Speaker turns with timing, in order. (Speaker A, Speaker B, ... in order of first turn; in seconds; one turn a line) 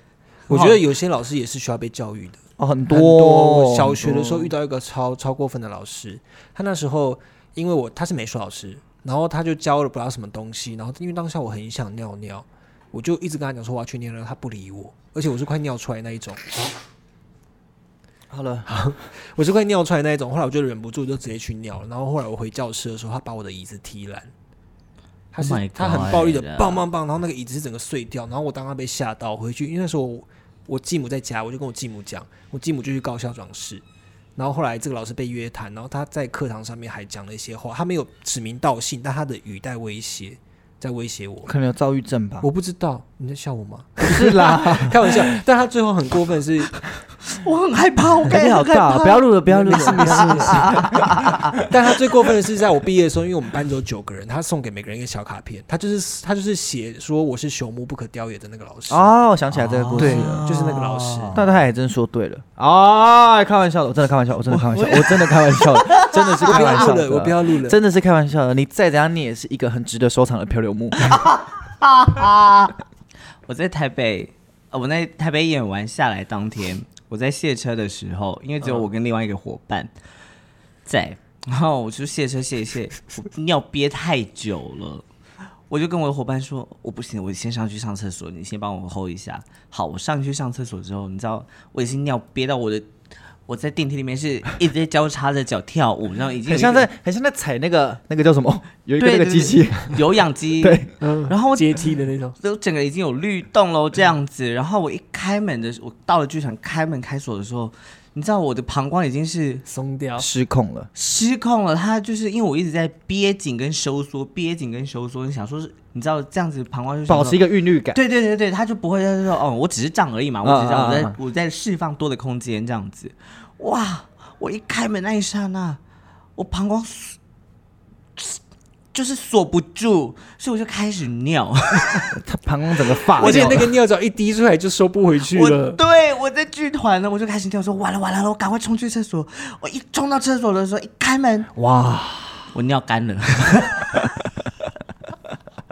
Speaker A: 0.5-16.4
Speaker B: 2.6-4.5
Speaker B: 18.3-18.7
Speaker A: 18.7-24.3
Speaker A: 25.3-33.8
Speaker C: 25.4-26.9
Speaker A: 34.4-41.5
Speaker B: 41.5-42.5
Speaker A: 42.4-46.8
Speaker B: 44.1-45.3
Speaker C: 47.3-51.6
Speaker B: 48.3-51.1
Speaker A: 49.5-50.8
Speaker A: 51.6-59.1
Speaker B: 58.9-60.4
Speaker C: 59.5-61.4
Speaker A: 60.0-61.4
Speaker B: 61.3-71.2
Speaker C: 64.7-66.9
Speaker A: 66.2-67.8
Speaker C: 71.1-72.8
Speaker C: 73.5-79.9
Speaker C: 80.9-85.0
Speaker C: 85.7-92.9
Speaker C: 93.5-96.9
Speaker B: 96.5-100.0
Speaker C: 99.0-101.8
Speaker B: 100.6-100.9
Speaker A: 101.0-102.4
Speaker C: 102.4-109.7
Speaker A: 109.7-110.3
Speaker B: 110.2-110.9
Speaker C: 111.0-125.8
Speaker B: 117.1-118.0
Speaker B: 120.4-121.2
Speaker C: 126.4-127.2
Speaker C: 128.9-132.1
Speaker B: 132.1-133.7
Speaker A: 133.2-135.8
Speaker C: 133.2-133.7
Speaker C: 135.3-141.5
Speaker B: 141.6-142.5
Speaker C: 142.5-144.1